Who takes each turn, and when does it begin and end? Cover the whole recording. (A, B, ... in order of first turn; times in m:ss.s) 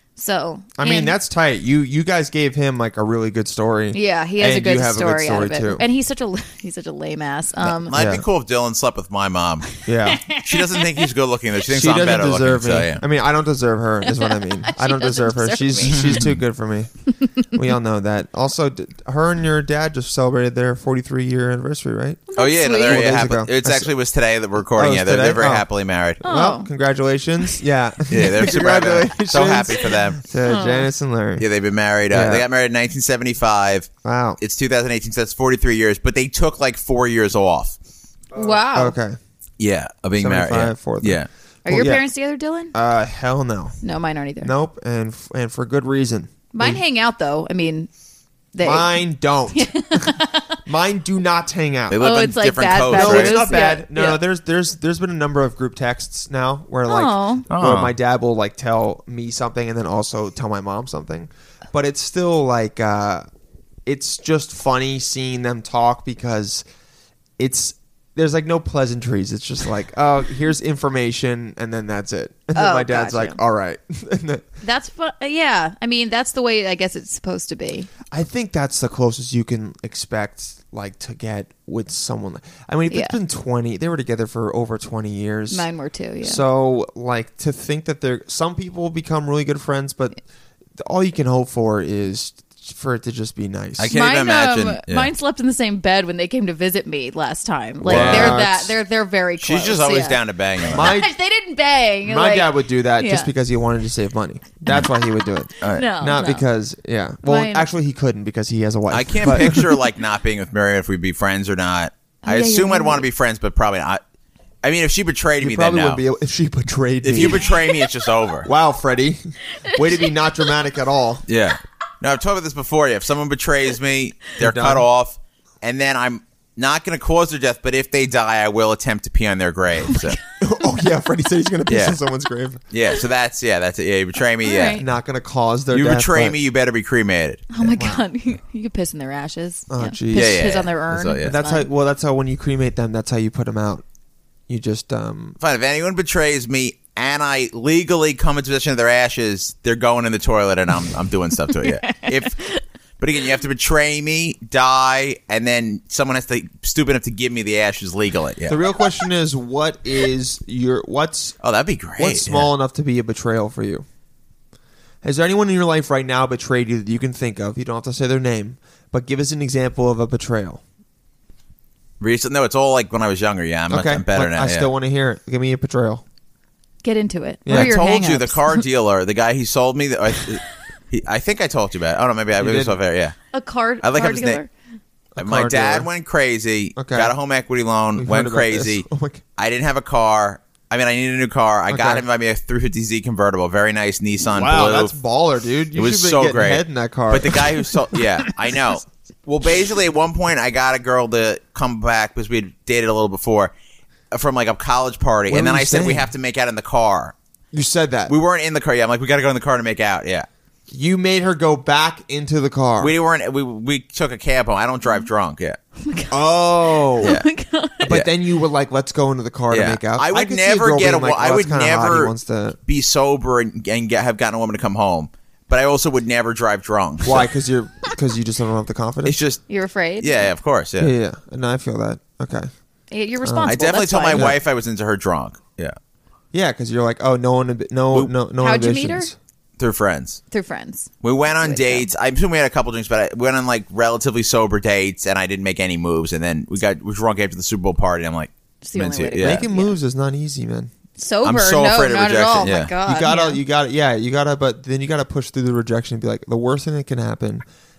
0:00.2-0:01.1 A
0:00.8-0:05.8 B
0:03.9-0:08.0 A
0:07.6-0:09.8 C
0:07.9-0:08.2 B
0:09.8-0:11.1 A
0:09.8-0:10.2 B
0:10.3-0:13.0 C
0:11.7-0:22.3 B
0:14.0-0:16.3 A
0:15.9-0:16.3 C
0:17.1-0:17.5 A
0:22.3-0:23.2 A
0:22.4-0:26.2 C
0:22.8-0:23.9 B
0:24.7-0:25.7 B
0:26.2-0:31.4 B
0:26.2-0:26.7 A
0:28.1-0:30.2 C
0:30.4-0:30.9 A
0:31.4-0:37.8 C
0:32.1-0:32.4 B
0:34.0-0:34.4 B
0:38.3-0:39.2 B
0:38.3-0:39.0 A
0:39.6-0:41.3 C
0:40.2-0:42.0 B
0:41.6-0:42.7 A
0:42.7-0:43.8 B
0:43.8-0:44.5 A
0:44.4-0:46.8 B
0:46.5-0:47.9 A
0:48.5-0:50.6 A
0:48.6-0:52.0 B
0:51.9-0:53.4 C
0:52.0-0:54.2 A
0:52.9-1:03.2 B
0:56.9-0:57.4 A
0:57.5-0:57.9 C
1:03.8-1:06.6 B
1:07.4-1:14.4 B
1:12.5-1:13.4 A
1:14.6-1:17.9 A
1:18.1-1:25.7 B
1:22.9-1:23.2 A
1:25.5-1:26.4 A
1:26.2-1:30.2 B
1:30.8-1:33.9 B
1:33.8-1:35.1 C
1:33.9-1:43.3 A
1:37.8-1:38.4 C
1:37.8-1:38.7 B
1:39.4-1:41.0 C
1:40.7-1:41.1 B
1:42.0-1:49.7 B
1:45.6-1:45.9 C
1:45.7-1:46.4 A
1:47.2-1:47.7 A
1:48.9-1:54.0 C
1:52.2-1:53.0 A
1:54.6-1:56.0 C
1:55.4-1:57.5 B
1:57.0-1:58.5 C
1:57.2-1:57.8 A
1:58.4-2:01.2 B
1:59.5-2:00.1 A
2:01.3-2:10.2 C
2:04.4-2:04.8 B
2:09.9-2:10.1 A
2:10.4-2:12.6 B
2:11.7-2:12.0 C
2:12.7-2:14.8 C
2:14.4-2:14.8 A
2:14.8-2:16.4 B
2:15.7-2:17.5 C
2:17.5-2:21.7 A
2:17.6-2:18.0 B
2:19.7-2:20.6 B
2:20.1-2:21.3 C
2:21.2-2:23.8 B
2:24.5-2:25.4 B
2:25.4-2:32.4 C
2:31.5-2:32.6 A
2:33.0-2:38.6 C
2:38.5-2:41.4 B
2:41.4-2:42.5 C
2:42.0-2:43.8 B
2:45.0-2:50.6 B
2:52.0-2:54.7 C
2:53.7-2:56.0 B
2:56.8-2:58.6 A
2:57.4-2:57.8 B
2:57.5-3:03.2 C
3:02.4-3:02.8 B
3:03.3-3:04.5 A
3:03.8-3:04.4 C
3:05.2-3:05.9 B
3:05.2-3:08.8 C
3:06.8-3:07.1 B
3:08.0-3:09.2 B
3:09.4-3:15.0 C
3:11.7-3:12.0 B
3:14.3-3:18.0 B
3:15.8-3:23.5 C
3:24.1-3:27.1 C
3:25.3-3:26.1 B
3:27.5-3:28.1 B
3:28.1-3:30.3 C
3:30.7-3:32.9 B
3:32.8-3:35.6 C
3:35.8-3:36.2 A
3:36.1-3:37.2 B
3:36.7-3:37.9 A
3:37.8-3:42.6 B
3:39.5-3:42.1 C
3:42.7-3:47.3 C
3:47.0-3:49.2 B
3:49.0-3:49.4 C
3:49.5-3:50.3 A
3:50.0-3:50.9 C
3:50.8-3:52.5 B
3:52.9-3:54.3 A
3:53.2-3:53.6 B
3:53.4-3:55.8 C
3:54.1-3:54.4 B
3:56.3-3:59.1 B
3:58.4-3:59.1 A
3:59.6-4:00.2 C
4:00.3-4:01.9 A
4:01.0-4:09.4 C
4:08.6-4:09.7 A
4:09.2-4:10.7 B
4:11.0-4:13.4 A
4:11.2-4:12.7 C
4:12.8-4:17.4 B